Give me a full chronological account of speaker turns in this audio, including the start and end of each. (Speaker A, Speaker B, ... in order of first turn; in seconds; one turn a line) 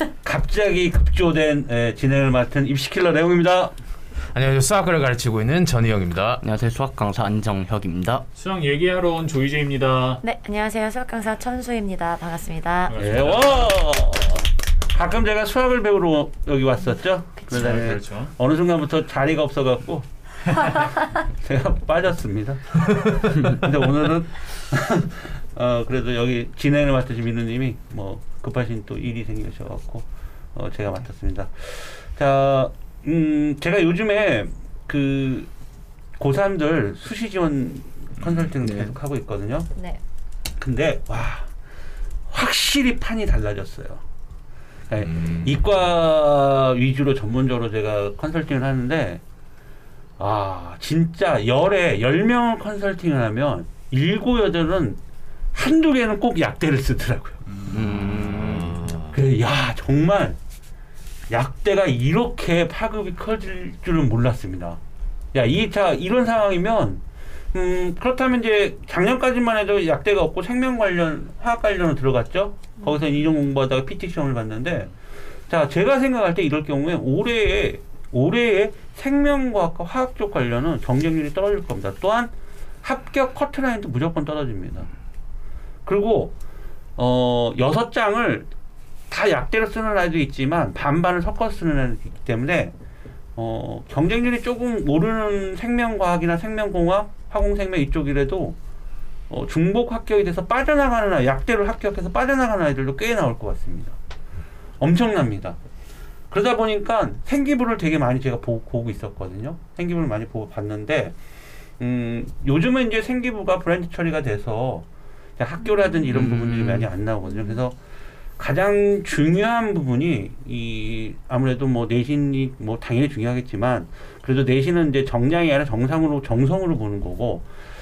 Speaker A: 0.2-3.7
Speaker B: 4.3-6.5
Speaker C: 6.5-8.2
Speaker D: 8.3-10.2
Speaker E: 10.2-13.0
Speaker D: 12.9-13.7
Speaker A: 13.0-35.5
Speaker D: 17.5-18.3
Speaker A: 36.2-39.7
Speaker E: 39.8-40.0
Speaker A: 40.6-41.5
Speaker A: 42.3-44.0
Speaker A: 44.9-49.2
Speaker A: 50.2-55.0
Speaker A: 55.5-57.4
Speaker D: 57.5-59.0
Speaker C: 57.7-58.6
Speaker B: 58.4-59.2
Speaker A: 59.1-60.4
Speaker A: 61.3-64.8
Speaker A: 65.3-74.9
Speaker A: 75.5-84.9
Speaker A: 85.8-86.4
Speaker A: 87.0-88.5
Speaker A: 89.1-92.8
Speaker A: 93.4-98.6
Speaker A: 99.3-104.0
Speaker A: 104.8-105.6
Speaker A: 106.3-111.2
Speaker A: 111.8-114.9
Speaker A: 115.4-117.8
Speaker B: 116.1-116.9
Speaker E: 117.2-117.6
Speaker A: 118.4-127.5